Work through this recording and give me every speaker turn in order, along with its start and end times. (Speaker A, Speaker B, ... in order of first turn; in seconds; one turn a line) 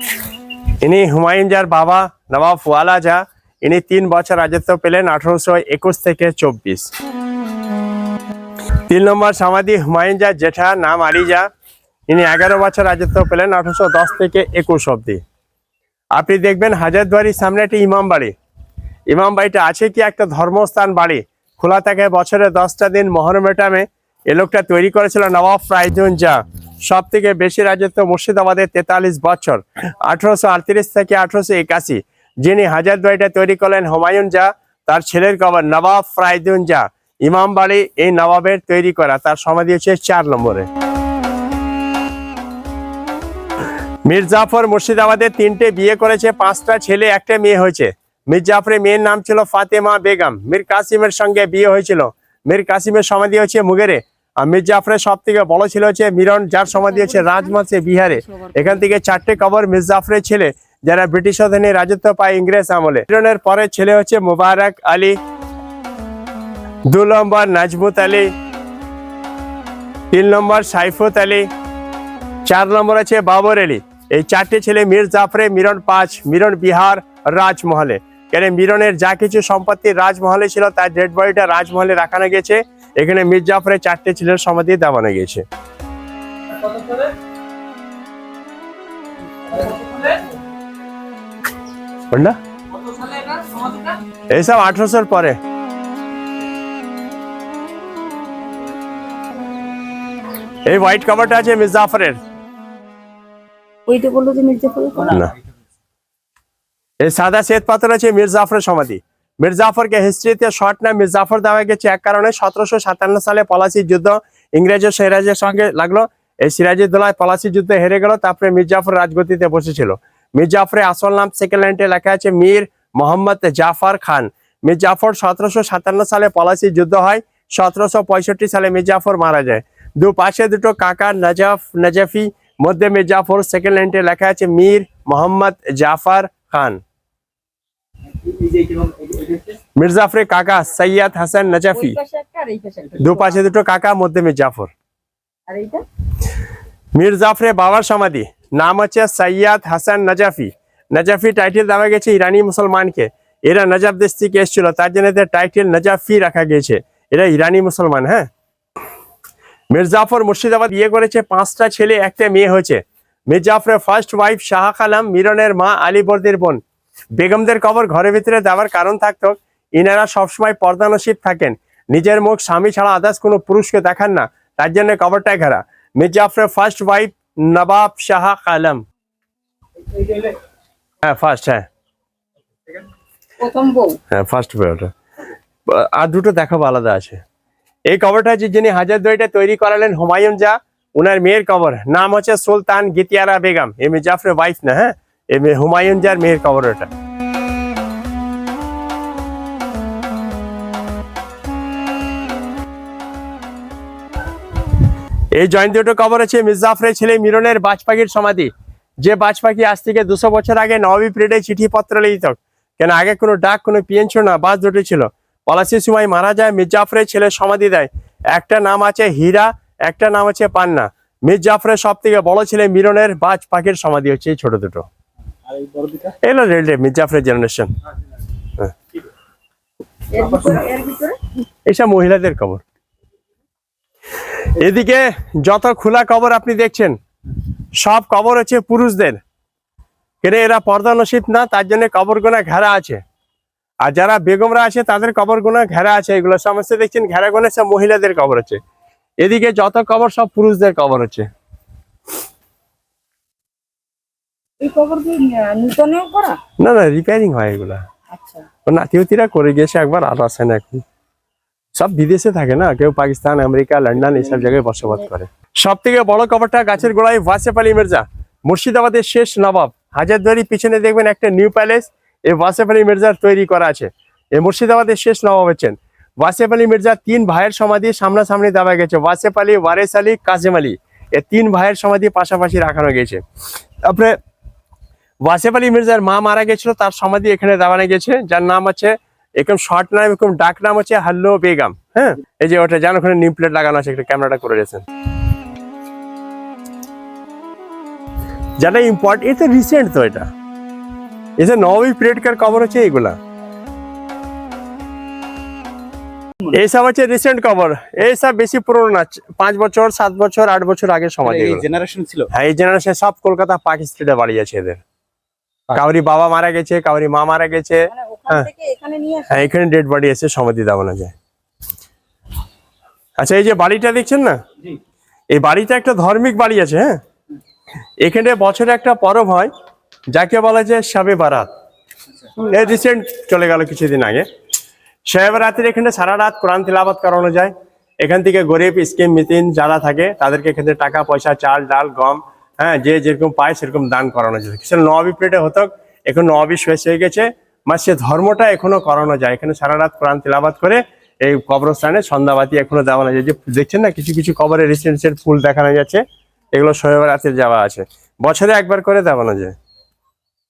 Speaker A: 0.8-6.9
Speaker A: 8.9-11.5
Speaker A: 12.1-15.2
Speaker A: 16.1-18.3
Speaker A: 19.1-40.7
Speaker A: 44.0-65.2
Speaker B: 56.7-57.6
Speaker B: 58.1-58.5
Speaker A: 66.9-68.3
Speaker A: 70.1-71.5
Speaker A: 72.5-85.4
Speaker A: 92.1-92.3
Speaker B: 93.2-93.6
Speaker A: 94.3-95.4
Speaker A: 100.7-102.2
Speaker B: 103.9-105.1
Speaker A: 107.0-136.8
Speaker C: 138.3-139.4
Speaker A: 139.8-142.0
Speaker B: 141.7-143.4
Speaker A: 143.0-144.7
Speaker B: 145.5-145.8
Speaker A: 146.9-158.3
Speaker A: 159.7-166.6
Speaker A: 167.1-178.8
Speaker A: 181.0-181.7
Speaker B: 183.4-184.0
Speaker A: 184.1-184.9
Speaker A: 185.7-187.2
Speaker A: 187.9-196.9
Speaker A: 205.3-208.5
Speaker A: 209.0-224.9
Speaker C: 225.5-226.1
Speaker A: 226.2-227.7
Speaker B: 230.1-231.2
Speaker A: 231.7-232.6
Speaker A: 234.5-237.0
Speaker A: 237.8-239.2
Speaker A: 240.2-243.0
Speaker A: 243.8-248.6
Speaker A: 249.2-251.3
Speaker B: 254.6-256.4
Speaker A: 256.6-257.8
Speaker B: 258.1-258.4
Speaker A: 258.6-260.8
Speaker A: 261.7-283.2
Speaker B: 264.1-265.0
Speaker A: 283.8-284.2
Speaker A: 285.2-294.8
Speaker A: 298.6-300.3
Speaker A: 301.4-303.2
Speaker A: 306.5-311.7
Speaker C: 311.2-312.3
Speaker A: 312.3-314.8
Speaker A: 315.7-318.5
Speaker B: 317.9-319.5
Speaker A: 319.3-321.1
Speaker A: 323.2-324.4
Speaker A: 325.3-327.0
Speaker A: 328.0-329.5
Speaker A: 330.1-331.5
Speaker A: 332.4-334.2
Speaker A: 335.0-356.0
Speaker A: 356.5-359.5